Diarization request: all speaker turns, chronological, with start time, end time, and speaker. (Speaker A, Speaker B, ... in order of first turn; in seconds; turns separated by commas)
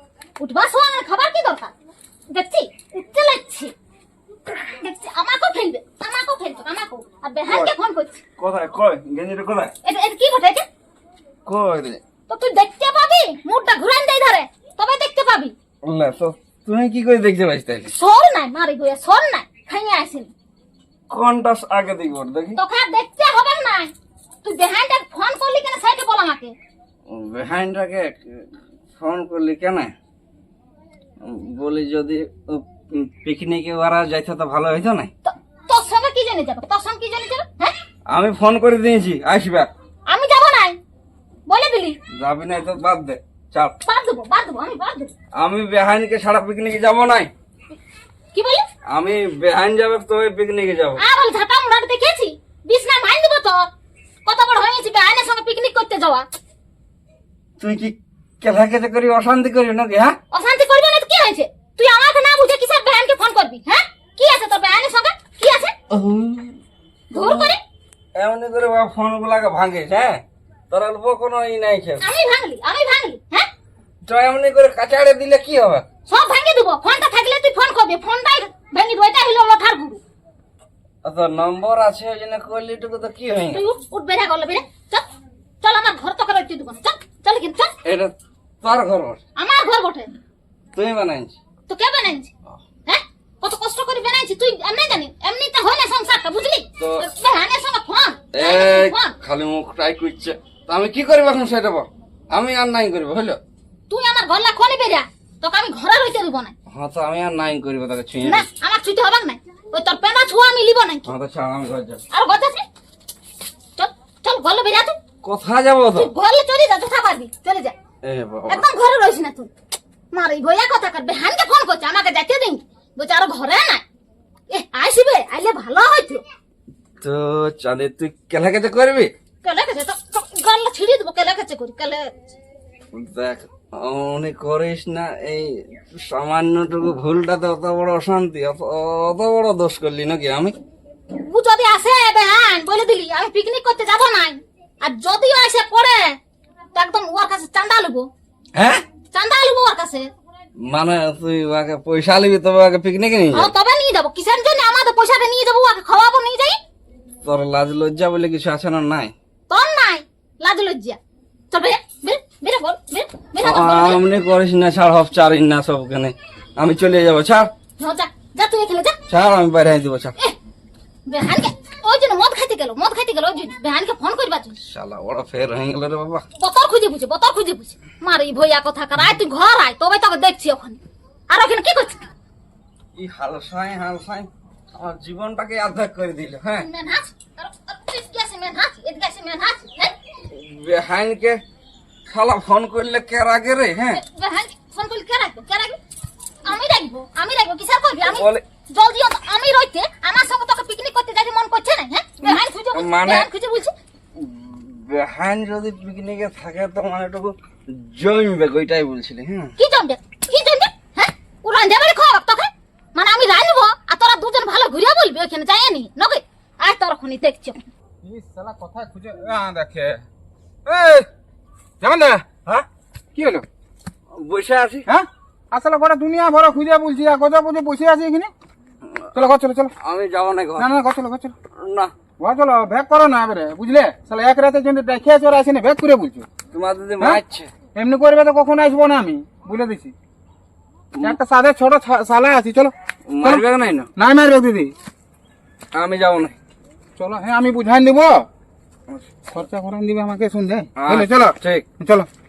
Speaker A: 0.4-1.7, Speaker A: 2.3-3.7, Speaker A: 4.7-8.2, Speaker B: 7.5-7.7, Speaker B: 8.4-9.7, Speaker A: 9.8-10.7, Speaker B: 11.4-12.0, Speaker A: 12.3-15.5, Speaker B: 15.8-17.9, Speaker A: 17.9-20.3, Speaker B: 21.1-22.6, Speaker A: 22.6-23.9, Speaker A: 24.4-26.5, Speaker B: 27.1-29.9, Speaker B: 31.2-35.1, Speaker A: 35.2-37.7, Speaker B: 38.1-39.7, Speaker A: 40.1-40.8, Speaker A: 41.5-42.0, Speaker B: 42.1-43.8, Speaker A: 43.8-45.1, Speaker B: 45.4-47.3, Speaker A: 48.3-48.6, Speaker B: 48.9-51.0, Speaker A: 51.0-53.7, Speaker A: 54.2-56.2, Speaker B: 57.6-60.2, Speaker A: 60.3-65.7, Speaker B: 65.9-66.5, Speaker A: 67.1-67.6, Speaker B: 67.2-67.5, Speaker B: 68.1-72.0, Speaker A: 72.0-73.5, Speaker B: 74.0-75.8, Speaker A: 76.1-80.0, Speaker B: 81.0-83.6, Speaker A: 83.5-85.0, Speaker A: 85.6-87.7, Speaker B: 87.8-89.2, Speaker A: 89.4-90.1, Speaker B: 90.7-91.3, Speaker A: 91.7-92.3, Speaker A: 92.8-99.1, Speaker B: 96.8-97.0, Speaker B: 98.3-103.4, Speaker A: 103.9-106.5, Speaker B: 106.7-108.5, Speaker A: 108.2-111.1, Speaker B: 111.0-112.0, Speaker A: 112.1-112.6, Speaker A: 113.8-115.0, Speaker B: 115.2-116.1, Speaker A: 115.9-117.7, Speaker B: 118.0-118.6, Speaker A: 118.5-119.5, Speaker A: 120.1-123.8, Speaker A: 124.5-126.2, Speaker B: 127.0-129.1, Speaker A: 129.4-132.1, Speaker B: 132.9-140.5, Speaker A: 141.2-146.2, Speaker A: 146.7-148.1, Speaker B: 148.5-148.8, Speaker A: 149.1-150.1, Speaker B: 150.6-153.5, Speaker A: 153.3-156.6, Speaker B: 157.2-159.1, Speaker A: 159.5-161.0, Speaker A: 161.5-164.0, Speaker B: 163.4-167.5, Speaker A: 167.8-169.0, Speaker B: 169.1-170.1, Speaker A: 171.1-174.6, Speaker B: 174.6-176.2, Speaker A: 176.4-180.8, Speaker A: 181.3-182.0, Speaker B: 182.9-186.7, Speaker A: 186.5-189.9, Speaker B: 190.2-191.4, Speaker B: 192.1-194.0, Speaker A: 193.9-195.8, Speaker A: 196.4-203.7, Speaker B: 198.1-198.4, Speaker B: 202.2-203.3, Speaker B: 204.1-209.5, Speaker A: 209.6-217.7, Speaker C: 218.0-220.0, Speaker C: 220.7-221.1, Speaker C: 221.8-222.2, Speaker C: 223.1-223.4, Speaker B: 224.1-224.9, Speaker C: 224.9-228.3, Speaker C: 229.1-229.7, Speaker B: 229.8-230.7, Speaker C: 230.6-231.3, Speaker B: 231.6-231.9, Speaker C: 232.2-236.3, Speaker B: 236.5-237.5, Speaker C: 237.7-239.9, Speaker C: 241.0-242.7, Speaker B: 243.1-243.9, Speaker C: 243.9-244.7, Speaker B: 245.7-246.3, Speaker C: 247.0-248.3, Speaker C: 249.3-252.1, Speaker B: 250.8-251.7